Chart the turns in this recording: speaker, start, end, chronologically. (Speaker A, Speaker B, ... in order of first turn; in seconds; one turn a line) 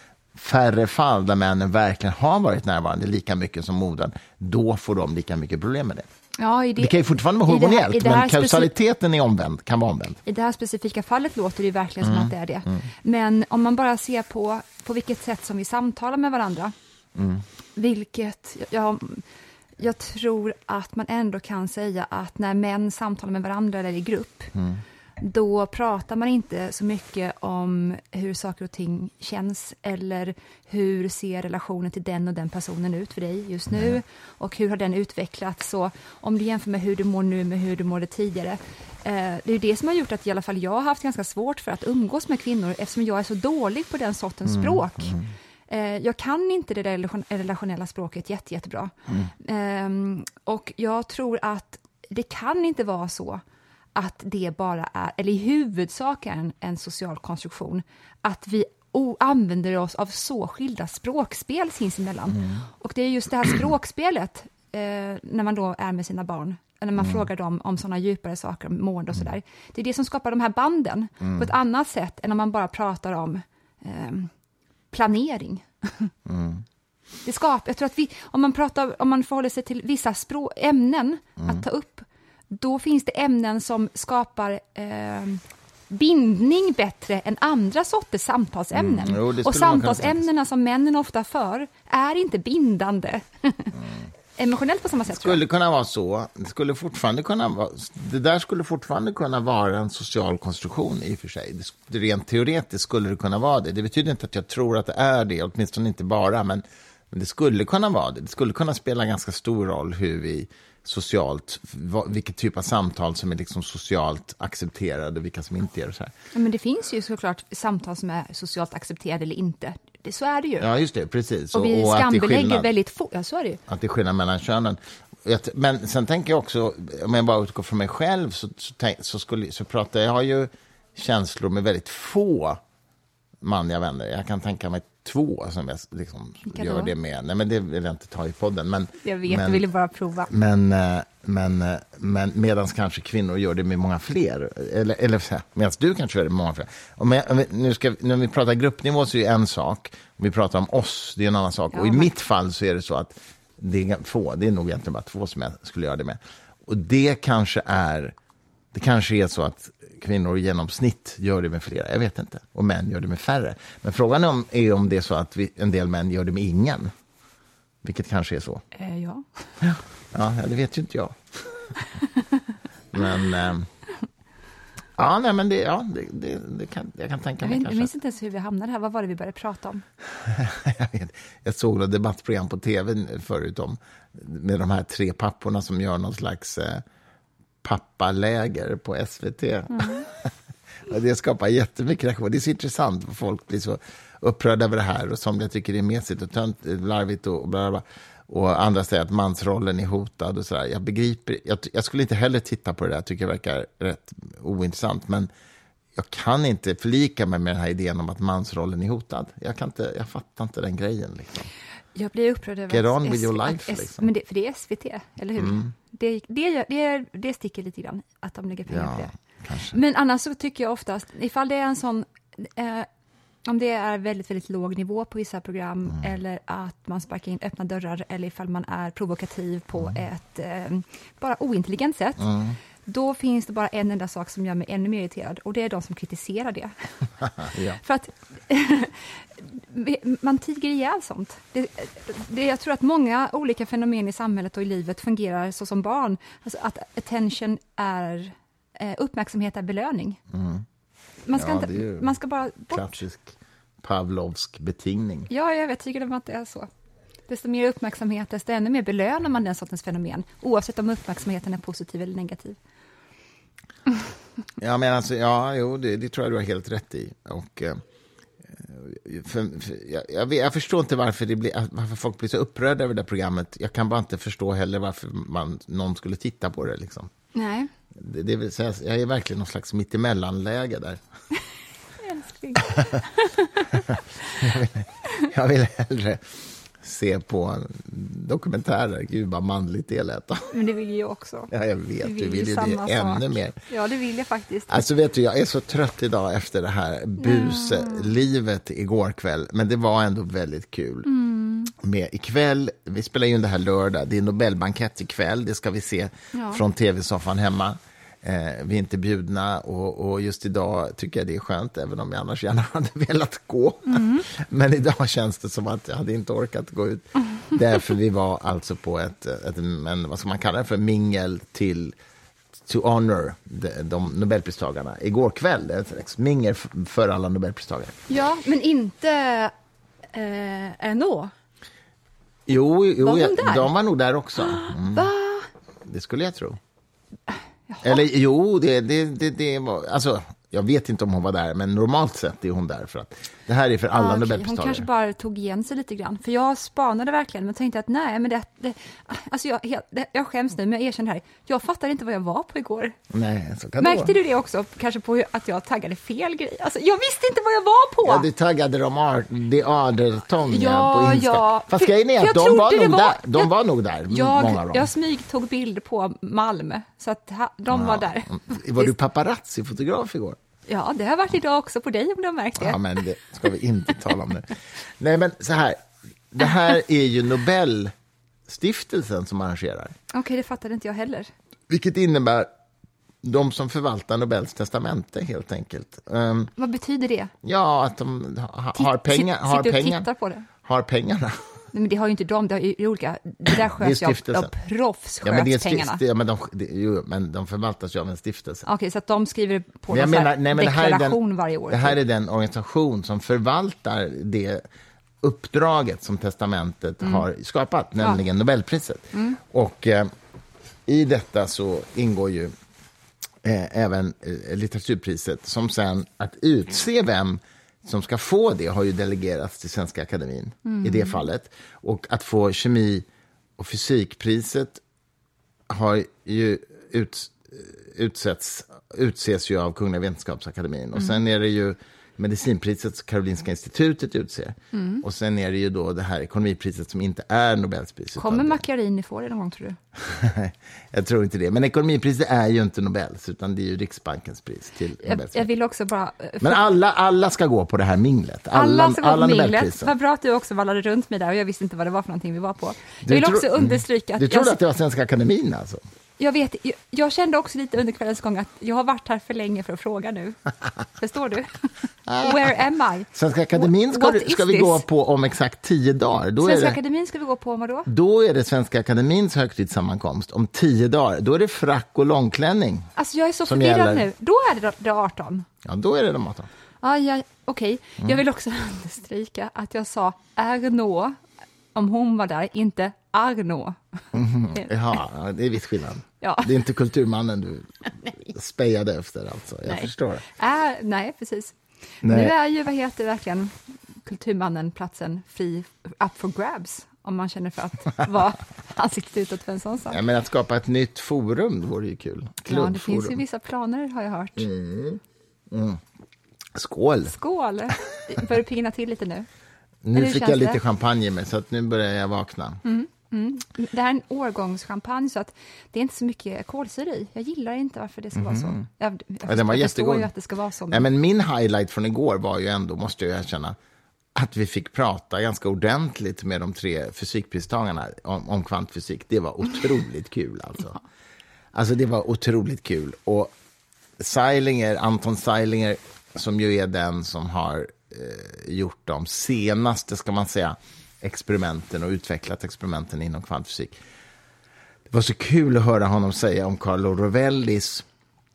Speaker A: 0.3-6.0
Speaker B: 6.4-8.7
Speaker A: 6.8-10.2
Speaker B: 10.2-16.7
Speaker A: 12.0-12.8
Speaker A: 17.1-17.4
Speaker B: 17.8-19.2
Speaker B: 19.8-24.5
Speaker A: 24.5-24.8
Speaker B: 25.2-53.4
Speaker A: 33.7-34.0
Speaker A: 44.5-45.2
Speaker B: 53.9-74.3
Speaker A: 67.0-67.2
Speaker A: 71.2-71.5
Speaker B: 74.9-76.1
Speaker A: 76.2-76.6
Speaker B: 77.2-93.8
Speaker A: 88.7-90.2
Speaker B: 94.4-95.4
Speaker A: 95.1-116.1
Speaker B: 116.3-120.7
Speaker A: 120.6-122.7
Speaker B: 121.5-123.6
Speaker A: 123.7-132.6
Speaker A: 133.4-139.6
Speaker B: 136.5-136.9
Speaker B: 139.0-140.3
Speaker A: 140.3-158.1
Speaker B: 151.7-152.1
Speaker A: 158.7-166.9
Speaker A: 167.8-168.6
Speaker B: 168.7-169.2
Speaker A: 169.6-171.7
Speaker B: 171.8-172.4
Speaker A: 172.9-173.7
Speaker A: 175.0-177.9
Speaker B: 177.4-179.8
Speaker A: 180.2-186.8
Speaker A: 187.6-190.3
Speaker B: 189.7-190.1
Speaker A: 190.8-205.3
Speaker A: 205.9-211.5
Speaker B: 211.9-219.1
Speaker A: 212.7-214.1
Speaker A: 215.4-215.7
Speaker A: 218.7-219.8
Speaker B: 219.7-222.9
Speaker B: 223.4-250.2
Speaker A: 232.2-232.6
Speaker A: 237.4-237.8
Speaker A: 250.3-250.6
Speaker B: 251.3-252.9
Speaker A: 251.3-252.1
Speaker A: 252.7-255.3
Speaker B: 255.3-256.7
Speaker B: 257.3-262.6
Speaker A: 264.6-267.8
Speaker A: 268.5-277.1
Speaker B: 277.3-277.7
Speaker A: 277.9-281.0
Speaker B: 282.0-284.4
Speaker A: 283.7-290.5
Speaker B: 290.5-294.8
Speaker A: 291.5-293.6
Speaker A: 294.7-301.1
Speaker B: 297.2-298.1
Speaker B: 301.0-301.7
Speaker A: 301.7-321.9
Speaker B: 306.3-306.6
Speaker B: 313.9-314.2
Speaker A: 322.6-327.9
Speaker B: 328.1-329.5
Speaker B: 330.1-331.3
Speaker A: 332.5-335.1
Speaker B: 333.0-333.7
Speaker B: 334.4-335.5
Speaker A: 335.8-336.6
Speaker B: 337.7-338.0
Speaker A: 337.8-344.9
Speaker B: 343.9-352.9
Speaker A: 353.1-354.1
Speaker B: 353.8-358.3
Speaker A: 358.0-364.9
Speaker B: 360.4-363.5
Speaker B: 364.1-368.9
Speaker A: 367.7-370.4
Speaker B: 370.7-373.0
Speaker A: 372.6-375.8
Speaker A: 376.3-377.9
Speaker A: 378.5-379.9
Speaker B: 380.1-381.3
Speaker A: 381.7-382.5
Speaker A: 383.2-386.5
Speaker B: 386.6-387.3
Speaker A: 387.4-390.1
Speaker B: 388.7-390.5
Speaker A: 390.6-391.4
Speaker B: 391.7-396.0
Speaker A: 393.8-394.5
Speaker A: 395.2-398.6
Speaker B: 398.6-402.0
Speaker A: 399.9-404.6
Speaker A: 405.2-410.1
Speaker B: 409.1-409.4
Speaker A: 410.9-412.5
Speaker A: 413.4-423.1
Speaker B: 420.6-421.2
Speaker A: 423.6-424.8
Speaker A: 425.7-438.6
Speaker B: 434.7-435.0
Speaker B: 438.1-439.8
Speaker A: 439.9-445.5
Speaker B: 445.0-446.7
Speaker A: 446.4-449.9
Speaker B: 448.5-454.6
Speaker A: 453.0-455.8
Speaker B: 456.2-460.4
Speaker B: 460.9-464.8
Speaker A: 462.1-462.6
Speaker A: 463.1-466.8
Speaker B: 466.4-467.9
Speaker A: 467.9-472.9
Speaker B: 472.9-475.5
Speaker A: 473.4-474.1
Speaker A: 475.6-476.5
Speaker B: 476.8-481.2
Speaker B: 481.7-484.7
Speaker A: 484.1-490.2
Speaker B: 486.2-486.6
Speaker B: 489.6-500.0
Speaker A: 492.0-492.3
Speaker A: 499.9-503.2
Speaker B: 502.4-504.5
Speaker A: 504.4-505.8
Speaker A: 506.5-507.1
Speaker B: 507.1-509.2
Speaker A: 509.8-512.6
Speaker B: 509.9-510.6
Speaker B: 512.6-520.9
Speaker A: 518.1-518.6
Speaker A: 519.2-520.1
Speaker A: 520.7-523.5
Speaker A: 524.1-530.8
Speaker A: 531.5-533.3
Speaker A: 534.0-543.8
Speaker A: 544.9-547.9